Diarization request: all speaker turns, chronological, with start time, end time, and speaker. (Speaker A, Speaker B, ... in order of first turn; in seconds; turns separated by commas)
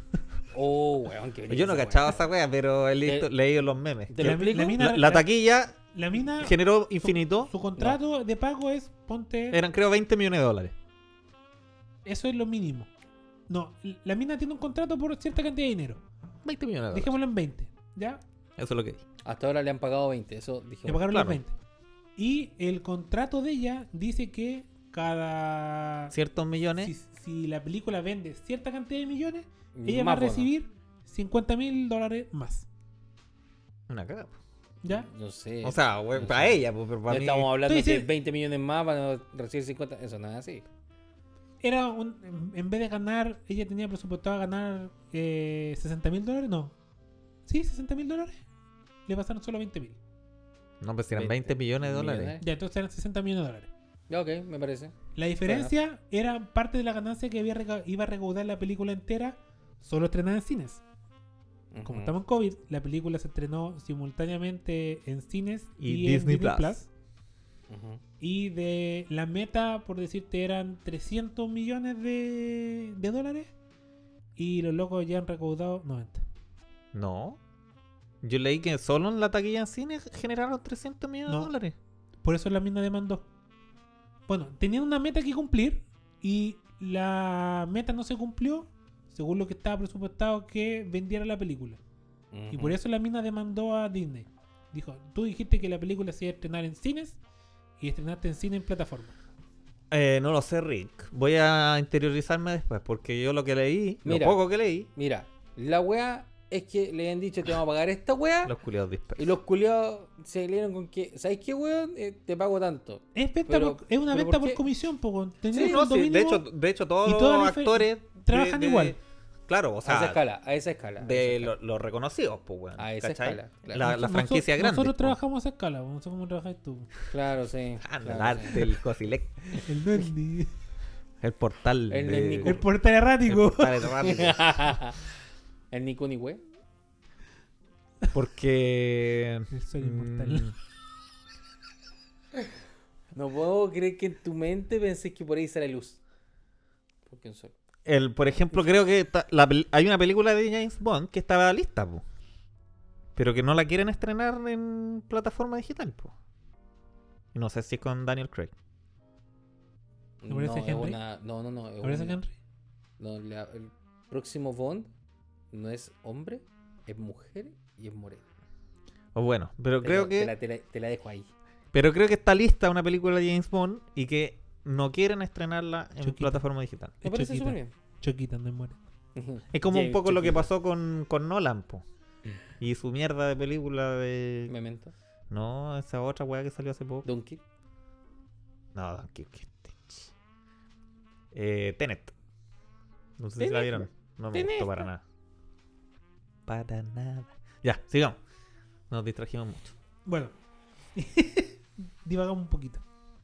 Speaker A: 0.5-2.2, Speaker B: 1.5-5.8, Speaker A: 3.0-3.3, Speaker A: 4.1-4.8, Speaker C: 4.2-5.3, Speaker C: 5.9-9.6, Speaker B: 6.4-7.5, Speaker B: 9.5-10.7, Speaker C: 12.0-12.9, Speaker C: 13.5-16.0, Speaker B: 16.4-17.2, Speaker C: 16.9-18.2, Speaker B: 18.6-19.0, Speaker A: 19.2-21.1, Speaker C: 20.9-21.5, Speaker B: 21.1-21.4, Speaker C: 22.2-26.1, Speaker B: 26.1-26.9, Speaker C: 26.8-32.7, Speaker A: 29.7-30.5, Speaker B: 33.9-34.4, Speaker C: 34.8-35.1, Speaker A: 34.9-40.6, Speaker B: 35.6-37.5, Speaker C: 37.6-38.1, Speaker C: 41.6-46.7, Speaker C: 47.5-48.4, Speaker C: 49.0-50.0, Speaker B: 50.8-52.4, Speaker A: 51.1-52.4, Speaker C: 52.4-53.7, Speaker A: 54.1-55.7, Speaker C: 55.1-60.8, Speaker A: 61.7-62.1, Speaker C: 61.8-66.9, Speaker B: 65.8-66.7, Speaker A: 67.7-68.0, Speaker C: 68.2-73.5, Speaker C: 74.4-76.2, Speaker B: 76.9-77.4, Speaker B: 78.2-81.7, Speaker C: 81.3-81.5, Speaker C: 82.2-83.3, Speaker C: 84.3-91.8, Speaker A: 92.3-92.8, Speaker C: 92.5-97.2, Speaker C: 97.8-99.2, Speaker B: 99.9-104.9, Speaker A: 104.0-108.5, Speaker B: 108.4-109.3, Speaker A: 109.2-114.6, Speaker C: 113.1-116.5, Speaker A: 115.5-115.8, Speaker B: 115.5-119.0, Speaker C: 117.0-119.0, Speaker B: 119.5-120.2, Speaker A: 119.8-121.5, Speaker B: 121.0-125.2, Speaker A: 122.8-123.9, Speaker C: 123.8-126.9, Speaker A: 127.1-128.7, Speaker B: 127.8-129.6, Speaker C: 129.6-130.5, Speaker B: 131.2-132.6, Speaker A: 131.9-132.6, Speaker C: 132.4-134.0, Speaker B: 133.2-134.4, Speaker A: 134.0-135.0, Speaker A: 135.7-136.4, Speaker B: 138.1-140.5, Speaker C: 139.5-140.5, Speaker A: 143.1-146.0, Speaker A: 147.1-147.6, Speaker B: 147.8-152.0, Speaker B: 153.2-156.1, Speaker B: 157.3-158.5, Speaker A: 160.2-162.2, Speaker C: 160.3-161.0, Speaker C: 161.8-162.3, Speaker A: 163.0-164.9, Speaker A: 165.5-168.3, Speaker B: 169.1-170.3, Speaker A: 169.8-171.3, Speaker B: 171.7-177.0, Speaker C: 176.0-176.4, Speaker C: 177.0-178.8, Speaker A: 177.0-177.7, Speaker A: 179.1-180.5, Speaker B: 179.5-181.8, Speaker B: 182.6-184.5, Speaker A: 184.5-184.9, Speaker B: 185.3-187.1, Speaker A: 187.0-187.4, Speaker B: 188.7-190.1, Speaker B: 191.3-192.1, Speaker B: 193.2-195.0, Speaker A: 193.4-194.9, Speaker B: 196.4-198.2, Speaker B: 198.9-199.7, Speaker C: 200.1-200.3, Speaker C: 200.9-202.8